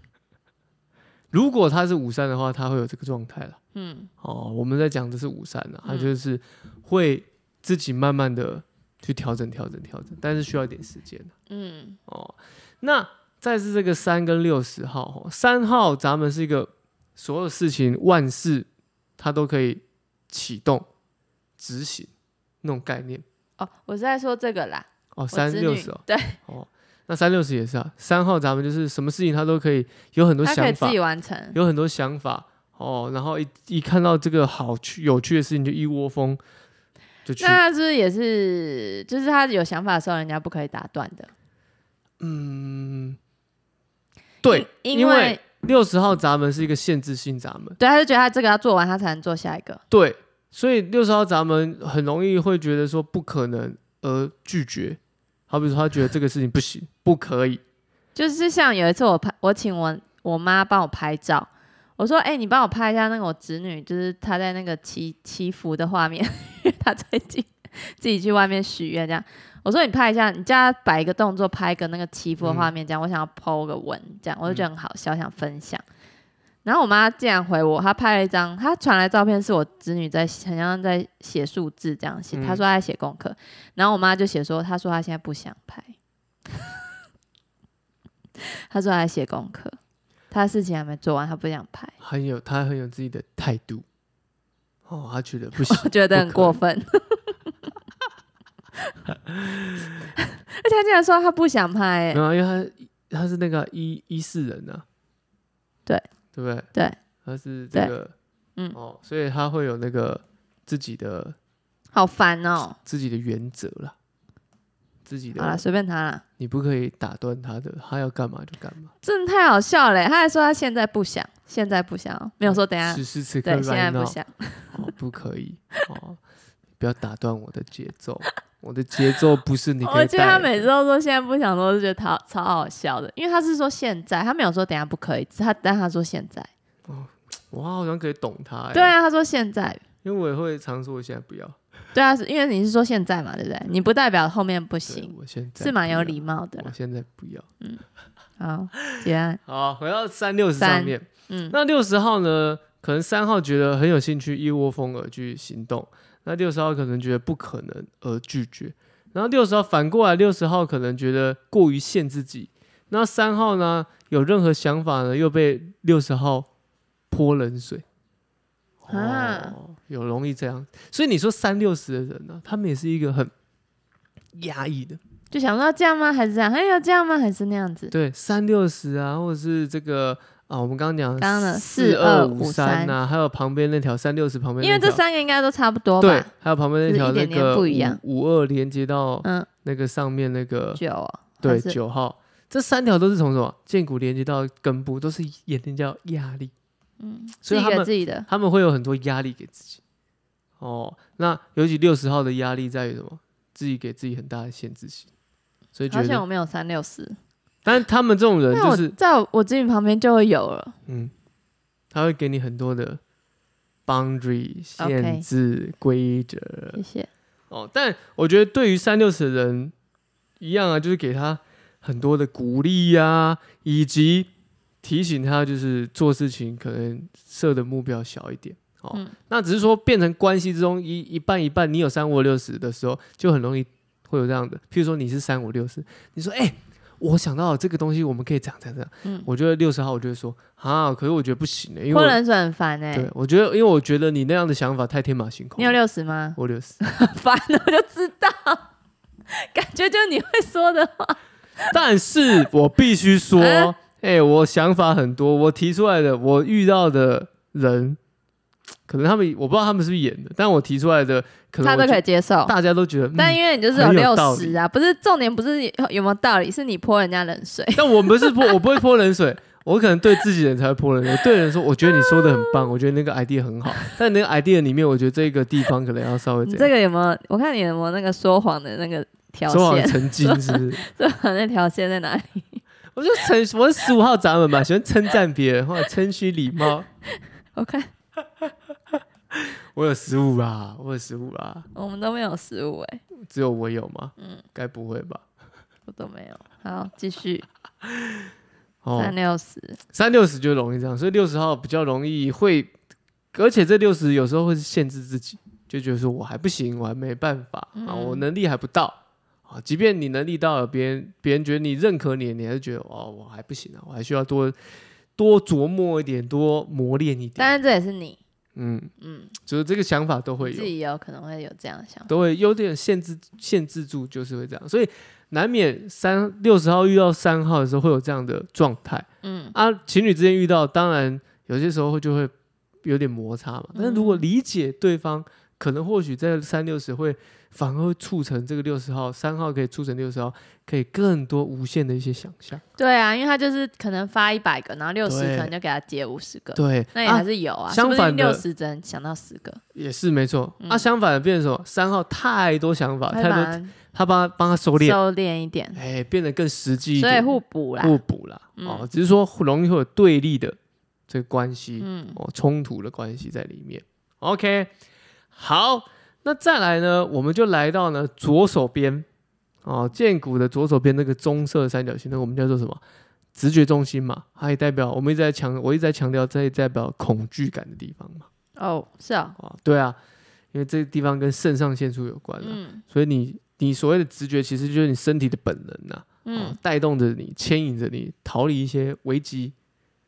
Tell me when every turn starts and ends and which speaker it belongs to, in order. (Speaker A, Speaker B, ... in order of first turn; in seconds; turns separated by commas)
Speaker A: 1.3-3.6, Speaker B: 3.7-4.1, Speaker A: 4.2-11.3, Speaker B: 5.9-6.1, Speaker B: 11.5-12.0, Speaker A: 12.1-18.7, Speaker A: 19.2-20.9, Speaker A: 21.6-22.1, Speaker A: 22.6-23.2, Speaker B: 23.6-26.4, Speaker A: 25.1-31.0, Speaker B: 30.4-31.6, Speaker A: 31.5-36.4, Speaker A: 37.3-37.6, Speaker B: 37.4-41.3, Speaker A: 42.2-43.2, Speaker A: 44.4-47.8, Speaker B: 44.5-45.4, Speaker B: 47.8-49.8, Speaker A: 49.9-57.6, Speaker B: 58.1-75.8, Speaker A: 72.4-72.7, Speaker B: 76.7-86.0, Speaker A: 82.3-82.6, Speaker B: 86.5-86.8, Speaker B: 88.4-89.8, Speaker B: 90.3-91.9, Speaker A: 92.0-93.8, Speaker A: 94.9-96.6, Speaker B: 95.6-97.5, Speaker A: 99.3-99.9, Speaker B: 100.2-102.2, Speaker A: 102.1-104.8, Speaker A: 106.3-106.7, Speaker A: 107.2-108.1, Speaker A: 108.7-111.4, Speaker B: 111.9-112.8, Speaker A: 112.8-114.0, Speaker A: 115.1-115.6, Speaker B: 115.4-116.2, Speaker A: 116.4-118.9, Speaker B: 119.0-124.8, Speaker A: 122.5-124.2, Speaker A: 124.7-126.2, Speaker A: 126.8-130.7, Speaker B: 129.8-136.5, Speaker A: 136.9-138.9, Speaker B: 138.7-139.8, Speaker A: 140.0-141.6, Speaker B: 141.9-146.7, Speaker A: 144.9-147.5, Speaker B: 148.4-149.4, Speaker A: 149.5-166.5, Speaker B: 150.6-151.6, Speaker A: 167.1-167.8, Speaker A: 168.8-173.3, Speaker B: 168.9-169.6, Speaker A: 174.3-175.0, Speaker B: 175.3-177.9, Speaker A: 177.9-185.0, Speaker B: 181.2-182.9, Speaker B: 184.6-186.3, Speaker A: 186.0-190.8, Speaker B: 186.9-188.0, Speaker B: 190.8-191.8, Speaker A: 191.4-196.5, Speaker B: 197.0-198.3, Speaker A: 197.4-199.8, Speaker A: 200.6-205.1, Speaker A: 205.8-206.2, Speaker B: 205.9-207.2, Speaker A: 207.7-208.9, Speaker B: 208.5-210.8, Speaker A: 210.9-211.1, Speaker A: 211.9-213.0, Speaker A: 213.9-216.8, Speaker B: 214.8-215.2, Speaker B: 216.8-217.1, Speaker A: 217.5-219.7, Speaker A: 220.4-224.3, Speaker A: 224.8-242.2, Speaker B: 241.9-243.1, Speaker A: 242.9-245.8, Speaker B: 245.6-248.7, Speaker A: 246.4-246.8, Speaker B: 249.3-251.7, Speaker A: 251.7-258.0, Speaker B: 253.4-253.7, Speaker A: 258.9-264.6, Speaker B: 261.6-262.5, Speaker B: 263.1-268.6, Speaker A: 267.8-276.7, Speaker B: 271.9-272.6, Speaker B: 276.4-282.6, Speaker A: 279.5-280.8, Speaker A: 282.9-286.9, Speaker B: 287.1-287.9, Speaker A: 289.3-291.7, Speaker B: 291.7-293.0, Speaker A: 293.2-295.2, Speaker B: 295.9-297.5, Speaker A: 297.9-298.2, Speaker A: 298.8-299.1, Speaker B: 299.0-299.8, Speaker A: 299.9-302.7, Speaker A: 303.3-314.6, Speaker B: 307.8-308.2, Speaker A: 315.2-317.5, Speaker B: 317.4-318.2, Speaker A: 318.6-318.9, Speaker B: 319.0-319.3, Speaker A: 319.4-320.7, Speaker B: 320.4-322.1, Speaker A: 322.1-332.3, Speaker B: 329.2-329.6, Speaker A: 332.8-342.6, Speaker B: 333.8-334.2, Speaker B: 342.8-349.6, Speaker A: 345.1-345.5, Speaker A: 346.6-348.4, Speaker A: 349.7-355.0, Speaker B: 353.1-353.7, Speaker B: 354.8-355.8, Speaker A: 355.8-360.6, Speaker B: 357.0-358.0, Speaker B: 358.6-358.9, Speaker A: 361.1-364.7, Speaker B: 361.8-362.2, Speaker A: 365.3-369.1, Speaker A: 369.6-372.8, Speaker A: 373.4-378.3, Speaker B: 378.6-379.4, Speaker A: 379.4-380.0, Speaker A: 380.5-389.5, Speaker B: 382.4-382.8, Speaker B: 386.2-386.6